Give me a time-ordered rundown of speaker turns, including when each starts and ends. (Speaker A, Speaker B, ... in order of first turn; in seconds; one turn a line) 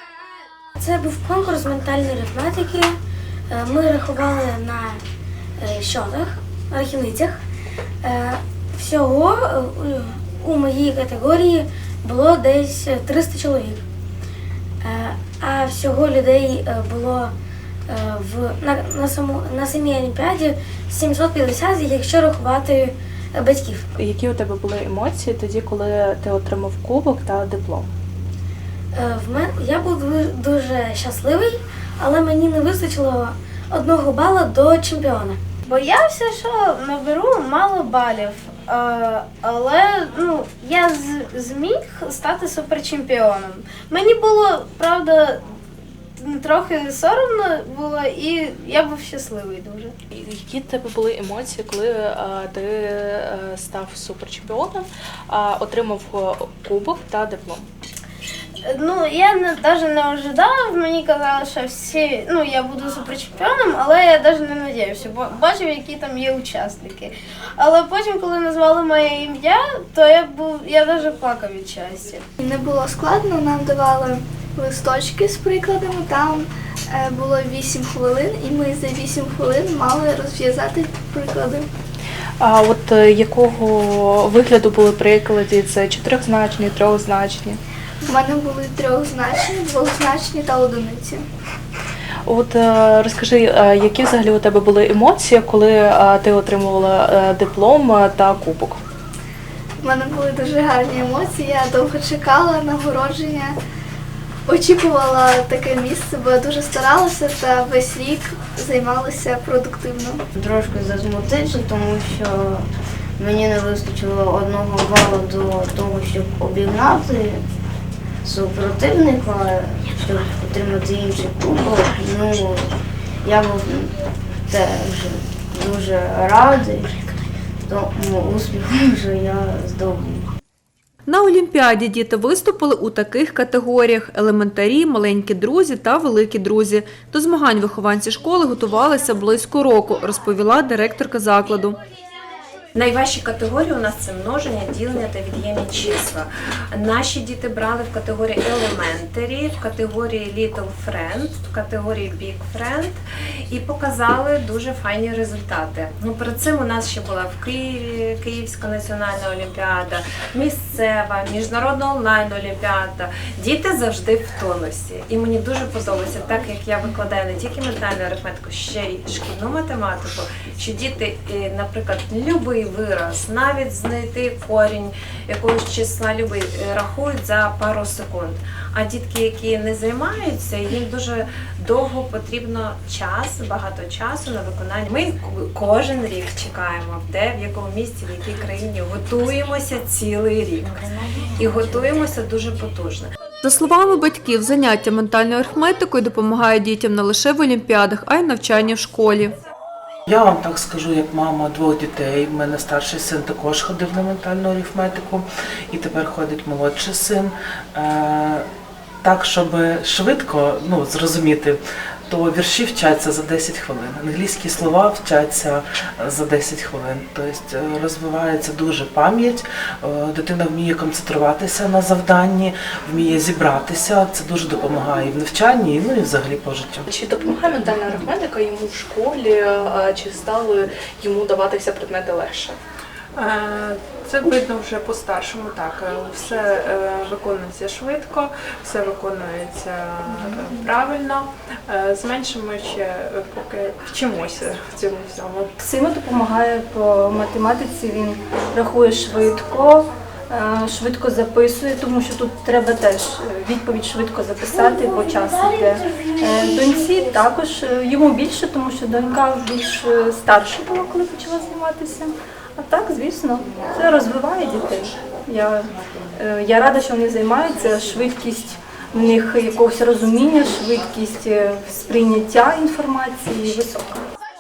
Speaker A: 0.8-2.9
Speaker A: 3.5-5.0
Speaker A: 5.6-7.4
Speaker A: 8.0-13.8
Speaker A: 14.8-17.3
Speaker A: 17.9-23.9
Speaker B: 24.0-27.9
Speaker A: 28.9-35.4
Speaker C: 35.7-45.5
Speaker C: 46.2-49.9
Speaker B: 50.1-57.7
Speaker C: 58.6-72.2
Speaker D: 72.4-81.7
Speaker B: 82.4-87.6
Speaker D: 88.0-91.2
Speaker B: 92.3-98.8
Speaker D: 99.8-103.6
Speaker D: 104.5-110.2
Speaker E: 110.4-112.7
Speaker E: 113.2-117.4
Speaker E: 118.2-122.7
Speaker E: 123.2-123.9
Speaker E: 124.5-130.3
Speaker F: 131.1-141.8
Speaker G: 142.8-193.1
Speaker F: 193.4-199.3
Speaker H: 200.1-208.5
Speaker H: 209.0-211.6
Speaker H: 212.1-226.8
Speaker B: 226.9-232.6
Speaker I: 233.2-245.4
Speaker J: 245.6-274.0